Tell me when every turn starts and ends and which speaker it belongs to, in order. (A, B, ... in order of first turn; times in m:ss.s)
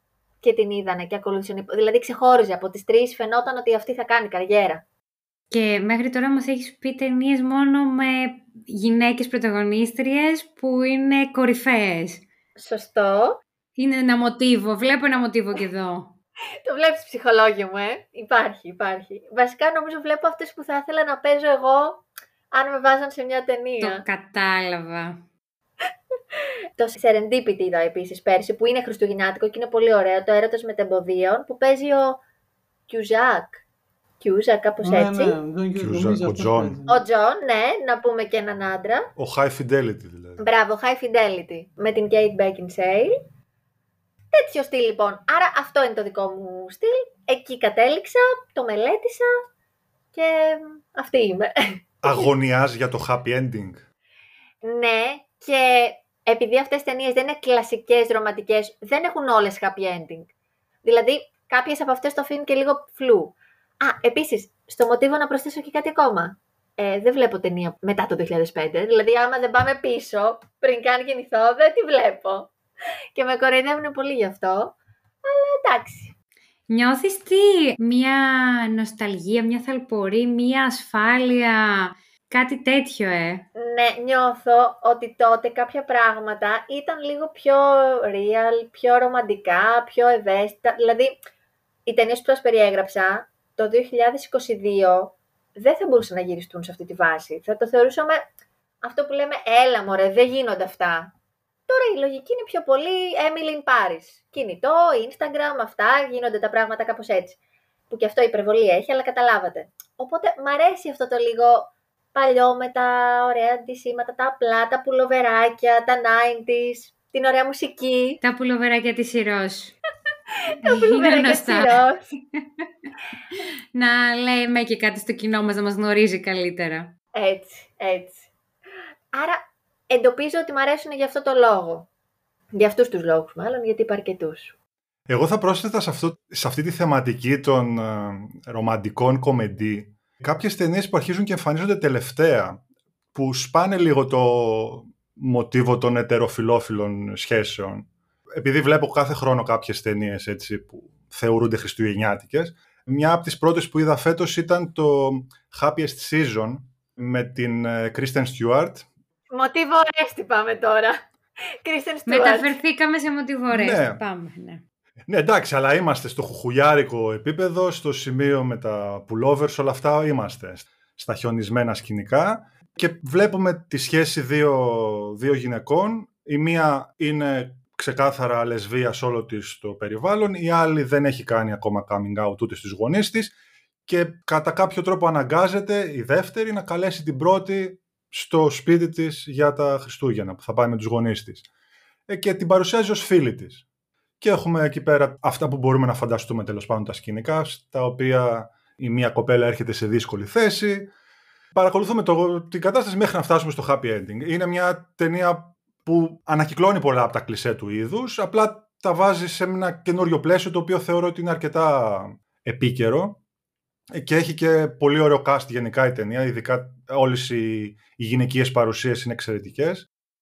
0:00.4-0:04.8 A
0:05.5-0:12.2 B
0:12.6-0:13.4 A
0:13.8-0:16.2 B
0:16.6-0:24.0 A
0:23.8-0:25.2 B
0:26.8-0:32.2 A
0:32.9-0:33.6 A
0:34.2-0:35.4 A
0:34.8-0:37.0 C
0:35.8-0:36.8 D
0:36.9-0:39.1 A
0:39.2-0:40.4 D
0:40.4-0:43.1 A
0:44.3-0:49.3 A
0:50.1-0:51.5 A
0:52.0-0:53.8 D
0:54.6-1:00.3 A
1:00.8-1:12.5 A
1:13.2-1:16.1 A
1:16.7-1:23.5 B
1:23.6-1:31.2 A
1:31.9-1:38.2 A
1:38.8-1:41.1 A
1:41.7-1:47.4 A
1:47.9-1:58.2 A
1:58.2-1:59.8 B
2:00.6-2:02.1 A
2:00.6-2:01.8 B
2:03.8-2:06.9 B
2:07.2-2:08.3 A
2:09.1-2:09.4 A
2:09.9-2:11.9 A
2:12.6-2:14.5 A
2:15.1-2:22.6 D
2:23.1-2:38.9 D
2:39.3-2:41.0 A
2:41.6-2:42.5 A
2:42.1-2:44.6 B
2:43.5-2:44.0 D
2:45.1-3:03.3 D
3:03.9-3:11.4 D
3:12.1-3:13.6 D
3:14.2-3:20.9 D
3:21.5-3:33.2 D
3:34.0-3:39.9 D